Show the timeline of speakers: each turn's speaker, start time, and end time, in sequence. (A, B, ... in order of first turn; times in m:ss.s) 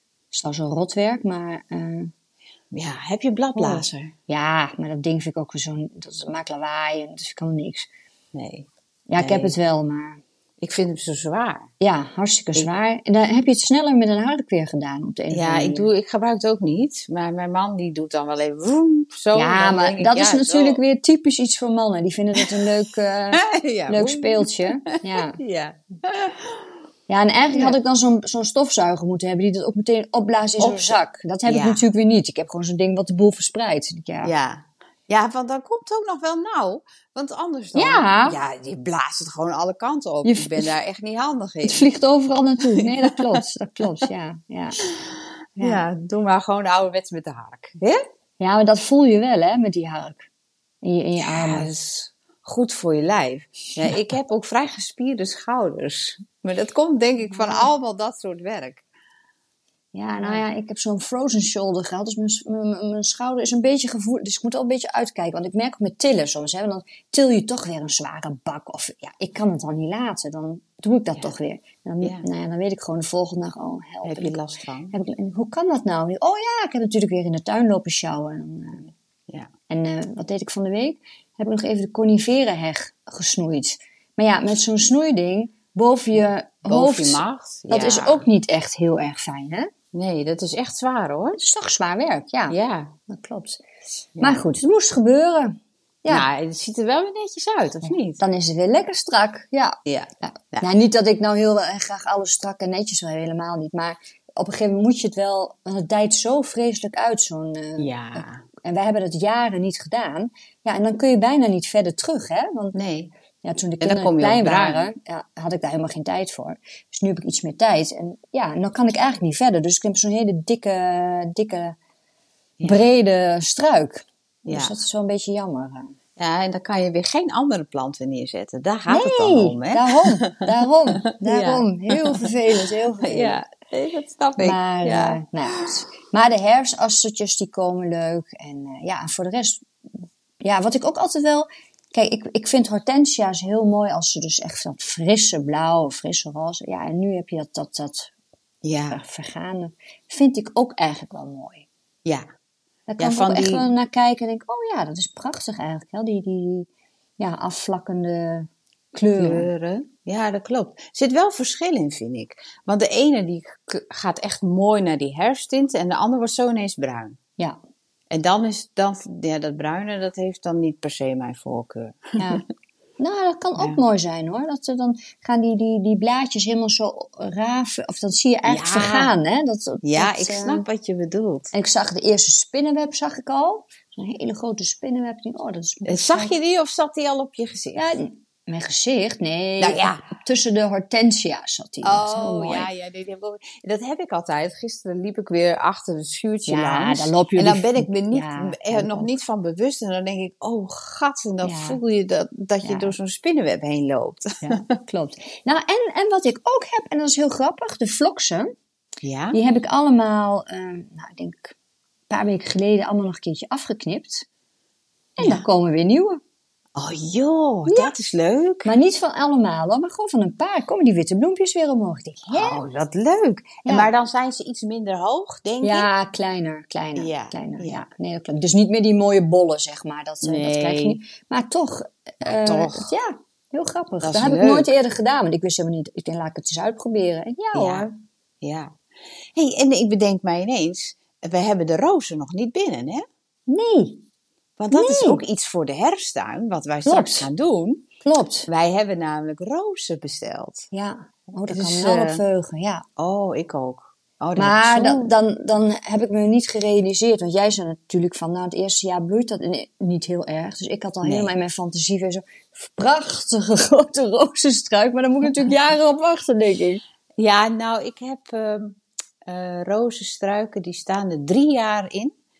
0:00.3-0:02.1 A
0:02.7-0:04.1 B
0:03.6-0:07.9 A
0:08.3-0:09.6 B
0:09.1-0:10.2 A
0:10.6-0:11.7 B
0:11.8-0:15.9 A
0:15.3-0:20.8 B
0:19.4-0:25.4 A
0:23.3-0:26.6 B
0:27.1-0:34.3 A
0:27.5-0:27.8 B
0:30.6-0:31.9 B
0:34.2-0:41.8 B
0:37.8-0:38.4 A
0:40.2-0:40.7 A
0:41.6-0:44.8 A
0:42.8-0:43.4 B
0:44.8-0:48.0 B
0:45.6-0:45.8 A
0:48.4-0:50.3 A
0:50.8-0:51.9 A
0:51.2-0:58.8 B
0:57.3-0:57.7 A
0:59.9-1:14.4 A
1:14.0-1:14.9 B
1:14.9-1:18.9 A
1:19.7-1:29.7 A
1:26.6-1:28.3 B
1:29.9-1:31.4 B
1:31.4-1:32.6 A
1:32.5-1:33.0 B
1:33.1-1:33.6 A
1:34.2-1:34.4 B
1:34.2-1:36.3 A
1:36.1-1:38.2 B
1:37.9-1:52.8 A
1:39.9-1:40.7 B
1:47.8-1:48.4 B
1:52.7-1:53.1 B
1:53.4-2:01.8 A
1:53.8-1:54.9 B
2:02.6-2:06.0 A
2:04.5-2:04.8 B
2:06.2-2:12.3 B
2:08.9-2:13.4 A
2:13.0-2:15.7 B
2:14.4-2:19.7 A
2:20.4-2:28.1 A
2:28.6-2:29.0 B
2:28.9-2:31.7 A
2:32.9-2:36.7 A
2:33.0-2:33.7 B
2:37.2-2:39.5 A
2:39.2-2:47.2 B
2:48.1-2:52.4 B
2:52.2-2:52.4 A
2:53.0-3:00.7 A
2:58.5-2:59.1 B
2:59.8-3:01.5 B
3:01.5-3:06.3 A
3:05.9-3:08.0 B
3:07.8-3:12.7 A
3:09.6-3:10.0 B
3:11.8-3:24.6 B
3:16.5-3:19.1 A
3:21.4-3:21.8 A
3:22.6-3:23.0 A
3:24.4-3:28.5 A
3:29.0-3:29.4 B
3:29.3-3:31.6 A
3:32.1-3:34.3 A
3:35.2-3:36.2 A
3:35.2-3:35.5 B
3:36.8-3:38.7 B
3:37.7-3:37.9 A
3:38.6-3:42.6 A
3:42.3-3:45.9 B
3:43.6-3:43.9 A
3:45.6-3:57.9 A
3:47.0-3:47.8 B
3:50.2-3:51.0 B
3:52.2-3:52.9 B
3:54.0-3:54.7 B
3:57.5-3:57.9 B
3:58.4-3:58.8 B
3:59.3-4:03.0 B
4:03.5-4:04.0 A
4:04.6-4:07.9 B
4:04.7-4:05.2 A
4:06.8-4:07.3 A
4:08.0-4:08.5 A
4:08.5-4:10.7 B
4:10.7-4:12.8 A
4:11.5-4:12.2 B
4:13.0-4:15.1 B
4:14.4-4:26.8 A
4:21.0-4:21.3 B
4:27.2-4:32.2 B